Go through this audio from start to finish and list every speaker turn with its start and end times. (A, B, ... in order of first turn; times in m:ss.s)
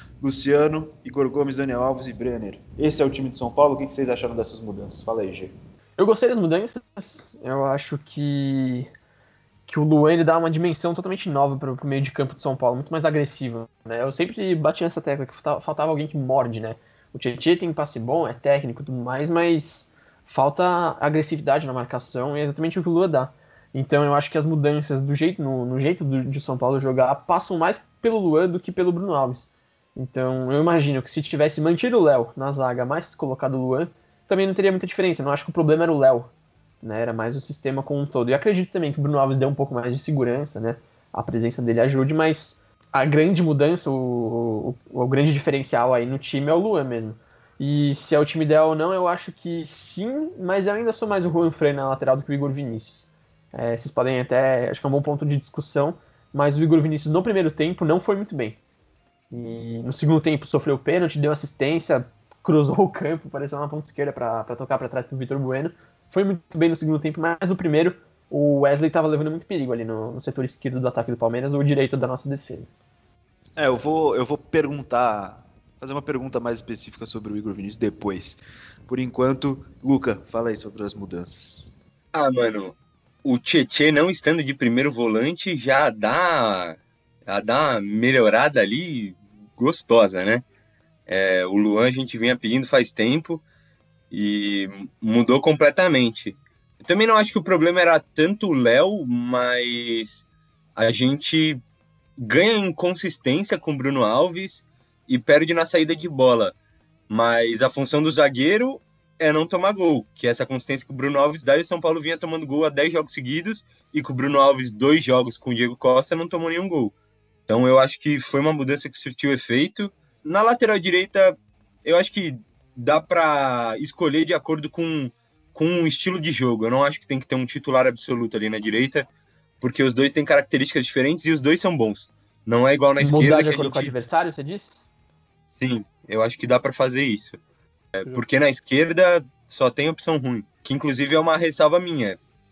0:00.2-0:05.5 A
0:06.0-0:08.9 B
0:09.7-0:36.3 B
0:36.8-0:58.6 B
0:59.3-1:12.7 B
1:13.6-1:21.7 A
1:22.1-1:30.4 C
1:31.1-1:33.4 C
1:34.1-1:40.2 C
1:40.8-1:41.6 C
1:42.2-1:46.5 C
1:47.1-1:56.9 C
1:57.5-2:09.1 C
2:09.6-2:13.9 C
2:13.0-2:14.8 B
2:15.5-2:17.4 C
2:18.0-2:22.2 C